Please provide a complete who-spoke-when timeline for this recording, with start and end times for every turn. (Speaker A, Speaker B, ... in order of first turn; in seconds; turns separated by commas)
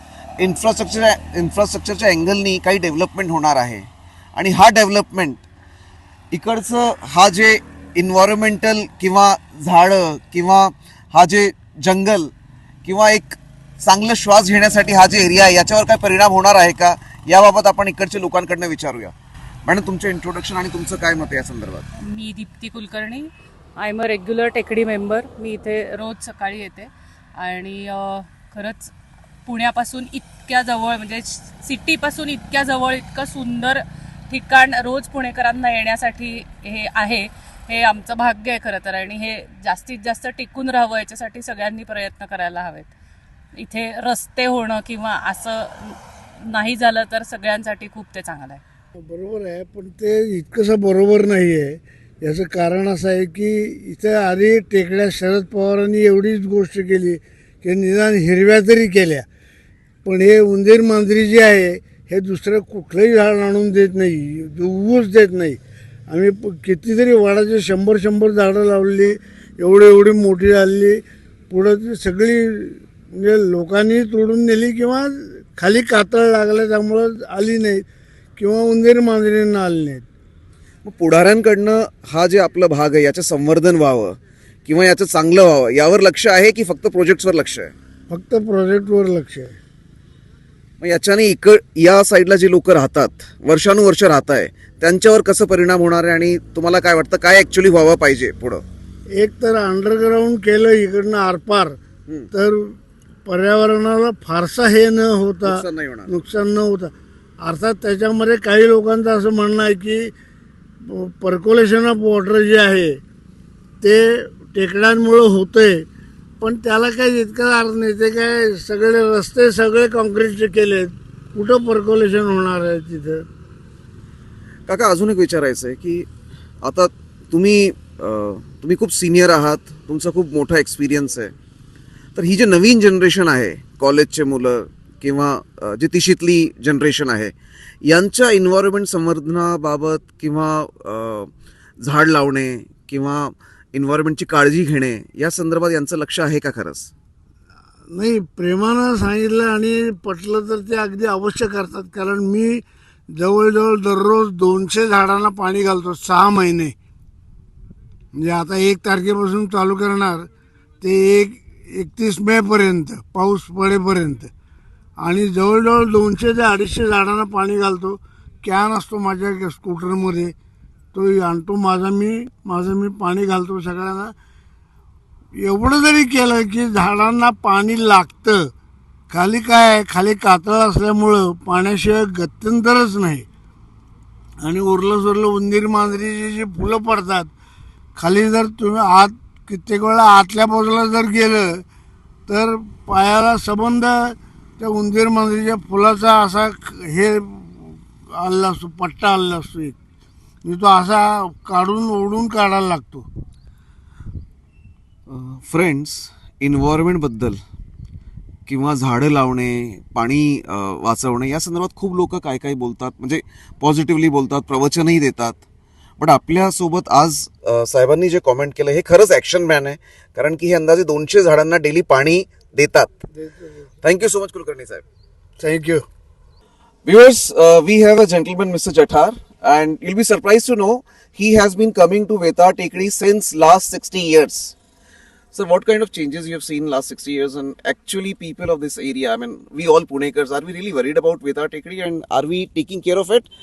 Speaker A: 0.4-5.5, Speaker A: 6.3-12.3, Speaker A: 12.8-19.1, Speaker A: 19.7-21.8, Speaker B: 22.1-28.9, Speaker B: 29.4-42.9, Speaker B: 43.5-48.6, Speaker C: 49.0-59.3, Speaker C: 60.0-77.8, Speaker C: 78.4-80.0, Speaker A: 80.8-87.7, Speaker C: 88.1-89.5, Speaker A: 90.8-98.6, Speaker C: 99.1-101.8, Speaker C: 102.3-110.1, Speaker A: 105.4-106.1, Speaker C: 110.9-113.0, Speaker C: 113.8-115.8, Speaker C: 116.4-123.2, Speaker A: 124.7-126.1, Speaker A: 126.6-131.3, Speaker A: 132.1-137.3, Speaker A: 137.8-141.3, Speaker A: 141.8-146.9, Speaker C: 147.9-156.7, Speaker C: 158.2-160.3, Speaker C: 160.8-164.3, Speaker C: 165.0-170.3, Speaker C: 170.9-174.1, Speaker C: 175.4-178.5, Speaker C: 179.1-183.2, Speaker C: 184.4-187.3, Speaker C: 187.9-191.6, Speaker C: 192.3-199.8, Speaker C: 200.4-203.1, Speaker A: 205.1-207.4, Speaker A: 208.5-215.4, Speaker A: 216.0-223.0, Speaker A: 223.8-224.8, Speaker C: 225.4-225.8, Speaker A: 226.8-234.5, Speaker A: 235.3-243.3